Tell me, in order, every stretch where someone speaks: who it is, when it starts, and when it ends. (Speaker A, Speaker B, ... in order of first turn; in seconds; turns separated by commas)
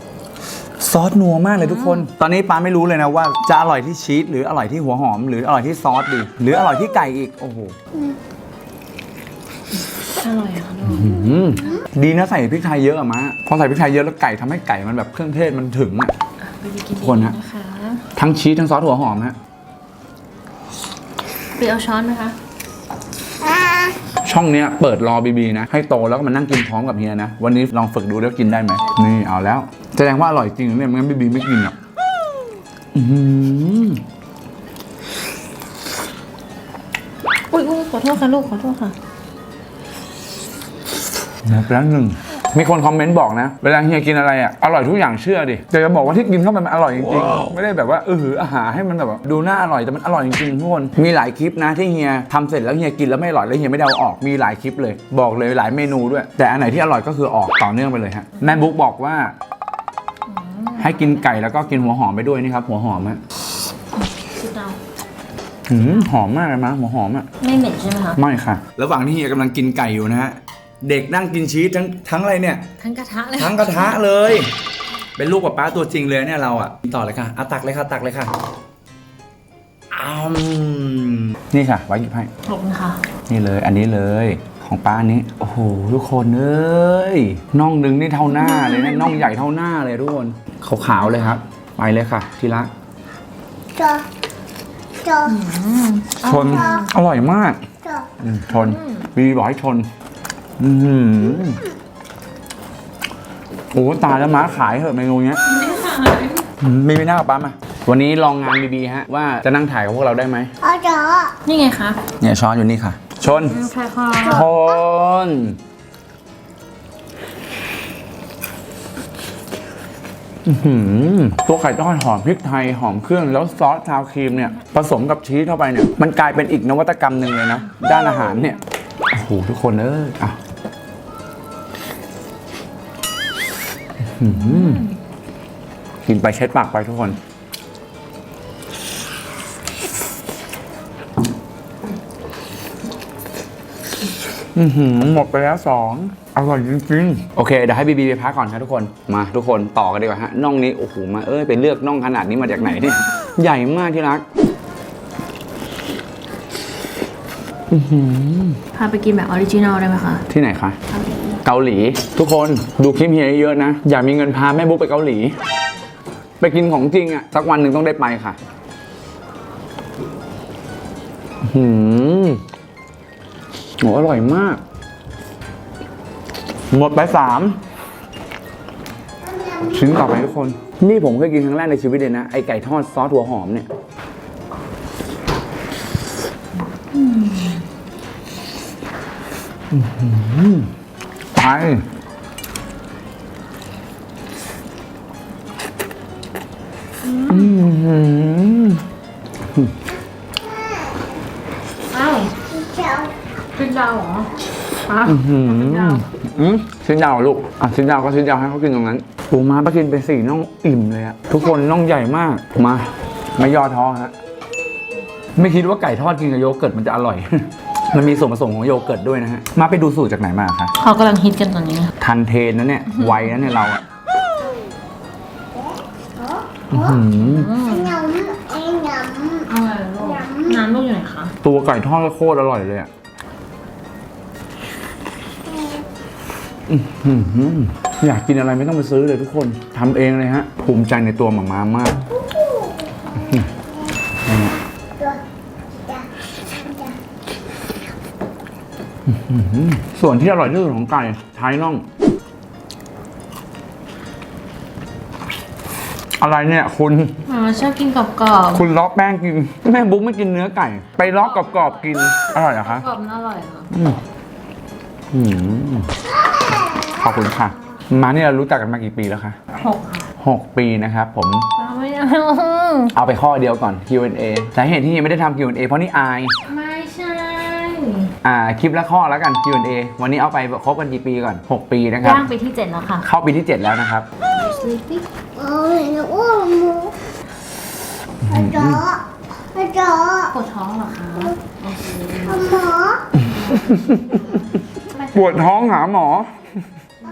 Speaker A: 0.8-7.8, Speaker B: 1.6-2.1, Speaker B: 10.2-11.8, Speaker A: 10.8-16.1, Speaker B: 16.4-18.0, Speaker A: 17.0-17.4, Speaker A: 18.2-19.4, Speaker B: 21.6-22.4, Speaker A: 24.2-31.8, Speaker A: 32.9-34.0, Speaker B: 37.5-39.0, Speaker A: 41.4-59.3, Speaker B: 60.3-61.7, Speaker A: 60.8-63.2, Speaker B: 64.0-64.8, Speaker A: 65.7-67.3, Speaker B: 67.4-68.2, Speaker A: 68.2-72.7, Speaker B: 72.8-74.0, Speaker A: 73.4-74.5, Speaker A: 75.2-78.3, Speaker A: 79.9-82.3, Speaker B: 82.5-83.0, Speaker A: 83.3-92.7, Speaker B: 88.3-89.2, Speaker B: 91.0-91.3, Speaker C: 93.8-94.0, Speaker B: 95.1-96.9, Speaker A: 96.2-97.6, Speaker A: 98.2-99.9, Speaker B: 98.5-99.1, Speaker A: 100.6-101.6, Speaker A: 103.7-105.4, Speaker B: 105.5-106.4, Speaker A: 106.6-110.5, Speaker C: 110.6-111.4, Speaker B: 111.5-112.0, Speaker A: 112.2-113.6, Speaker B: 113.2-114.5, Speaker A: 114.2-115.6, Speaker A: 120.5-128.6, Speaker A: 129.1-130.4, Speaker A: 134.0-134.9, Speaker B: 134.3-134.9, Speaker A: 136.1-137.2, Speaker A: 144.6-154.2, Speaker A: 157.7-158.6, Speaker B: 158.8-160.2, Speaker A: 160.3-160.8, Speaker B: 160.9-161.4, Speaker A: 161.4-165.3, Speaker A: 166.4-168.4, Speaker A: 171.4-172.4, Speaker A: 173.8-174.6, Speaker A: 176.7-177.6, Speaker A: 179.6-183.7, Speaker B: 186.9-187.6, Speaker A: 189.7-190.7, Speaker A: 191.3-191.8, Speaker B: 197.0-197.5, Speaker A: 197.3-198.8, Speaker B: 201.9-202.3, Speaker C: 202.5-203.1, Speaker B: 203.6-204.3, Speaker B: 204.9-206.0, Speaker A: 205.1-214.2, Speaker A: 215.4-220.7, Speaker B: 220.8-221.9, Speaker A: 222.0-223.8, Speaker B: 222.9-223.6, Speaker A: 226.7-227.5, Speaker B: 227.1-228.0, Speaker C: 227.7-229.5, Speaker B: 229.5-231.3, Speaker C: 230.1-230.5, Speaker A: 231.4-232.9, Speaker A: 236.7-242.0, Speaker A: 243.2-243.5, Speaker A: 244.3-244.6, Speaker A: 249.1-251.8, Speaker A: 256.2-257.2, Speaker B: 257.3-258.6, Speaker A: 258.5-262.9, Speaker B: 261.1-263.7, Speaker A: 263.7-264.0, Speaker A: 265.1-265.9, Speaker A: 266.8-269.4, Speaker B: 269.6-270.1, Speaker A: 270.2-271.5, Speaker B: 271.6-272.9, Speaker A: 272.9-276.3, Speaker B: 276.4-278.1, Speaker A: 278.2-282.3, Speaker B: 282.0-283.1, Speaker A: 283.0-284.1, Speaker B: 284.3-285.0, Speaker C: 285.4-286.9, Speaker A: 288.2-288.9, Speaker C: 288.7-289.0, Speaker C: 289.6-290.3, Speaker B: 290.3-292.6, Speaker C: 292.3-293.1, Speaker A: 293.2-294.4, Speaker B: 293.3-295.1, Speaker A: 295.1-296.3